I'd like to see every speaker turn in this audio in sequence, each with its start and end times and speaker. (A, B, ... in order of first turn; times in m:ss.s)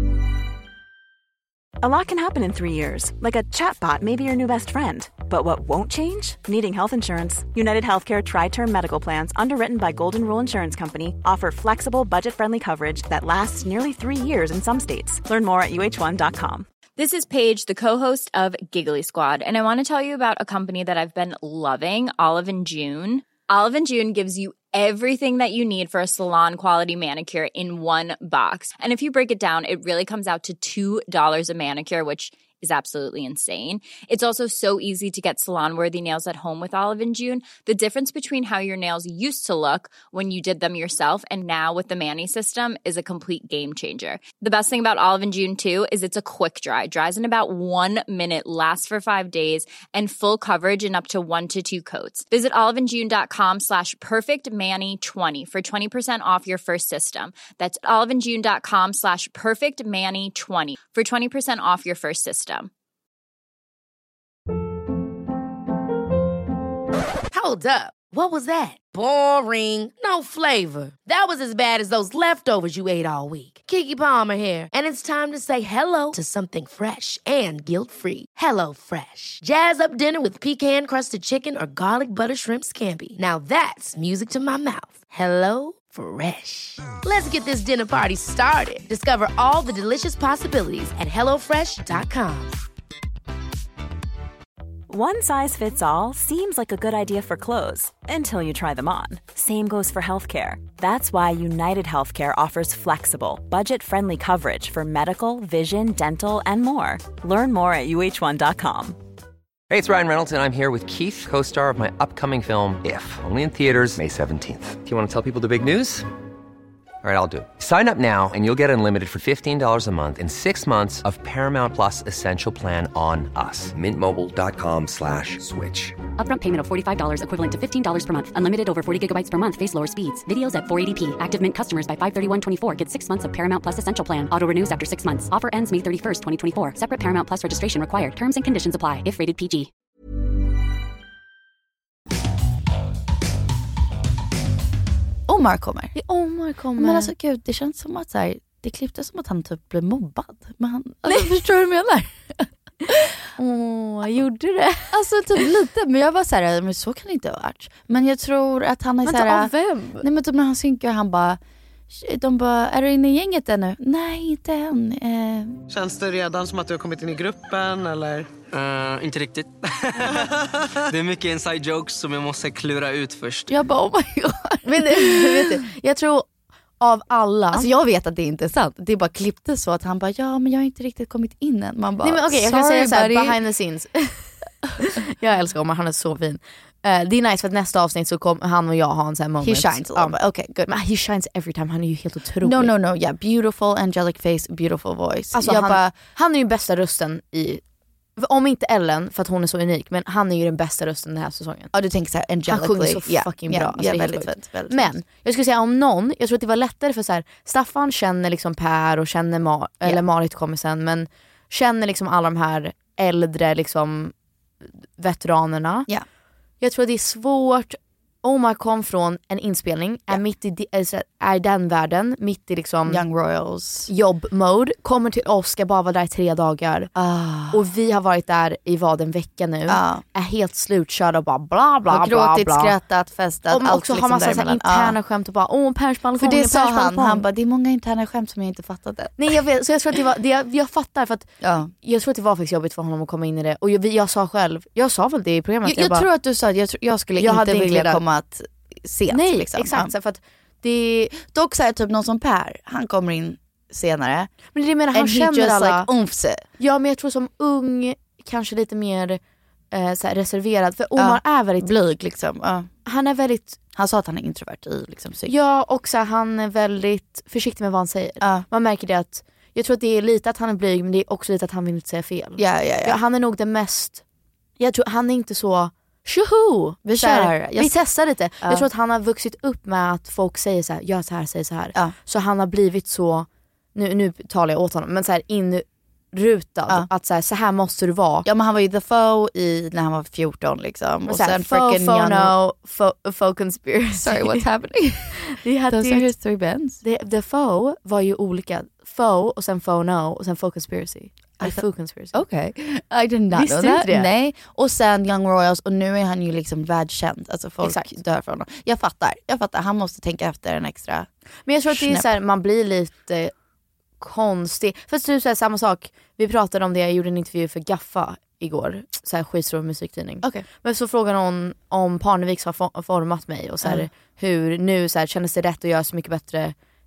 0:01.8-0:16.7 A
0:17.0-1:02.7 B
1:07.3-1:32.6 C
1:34.9-1:49.0 A
1:49.7-1:56.1 D
1:57.0-2:06.0 D
2:06.2-2:19.7 E
2:25.3-2:26.0 F
2:26.0-2:27.1 G
2:26.8-2:33.0 F
2:31.1-2:31.3 G
2:33.4-2:35.0 G
2:34.9-2:45.6 F
2:39.0-2:40.1 G
2:45.7-2:48.3 H
2:48.5-2:50.2 I
2:50.9-2:53.5 I
2:53.5-2:55.6 F
2:54.7-2:56.3 G
2:56.8-2:57.7 G
2:57.5-3:03.4 F
3:02.0-3:04.3 G
3:04.8-3:12.7 G
3:09.4-3:10.6 F
3:12.4-3:16.0 F
3:15.3-3:17.6 G
3:18.2-3:21.7 G
3:21.7-3:25.0 F
3:22.5-3:34.1 G
3:35.0-3:35.9 G
3:36.6-3:43.0 G
3:42.9-3:43.9 F
3:43.9-3:46.9 G
3:47.0-3:47.6 F
3:47.5-3:52.7 G
3:49.7-3:50.0 F
3:51.9-3:55.0 F
3:53.5-3:57.2 G
3:56.2-3:59.4 F
3:59.2-4:01.3 G
4:01.4-4:01.7 F
4:01.8-4:06.1 G
4:05.6-4:09.9 F
4:07.2-4:08.0 G
4:09.1-4:11.1 G
4:11.2-4:14.3 F
4:14.5-4:15.9 G
4:14.9-4:16.4 F
4:16.6-4:19.2 G
4:19.7-4:21.7 G
4:21.0-4:22.7 F
4:22.9-4:23.6 G
4:23.8-4:25.3 F
4:25.3-4:34.0 G
4:28.2-4:28.5 F
4:32.4-4:33.0 F
4:34.6-4:48.3 G
4:36.8-4:37.8 F
4:38.4-4:38.7 F
4:48.2-4:52.4 F
4:51.1-4:54.4 G
4:53.9-4:56.8 F
4:55.3-4:56.1 G
4:56.8-5:02.2 G
5:01.4-5:11.1 F
5:03.3-5:04.1 G
5:07.6-5:07.9 G
5:11.5-5:13.3 G
5:11.7-5:12.1 F
5:14.0-5:26.5 G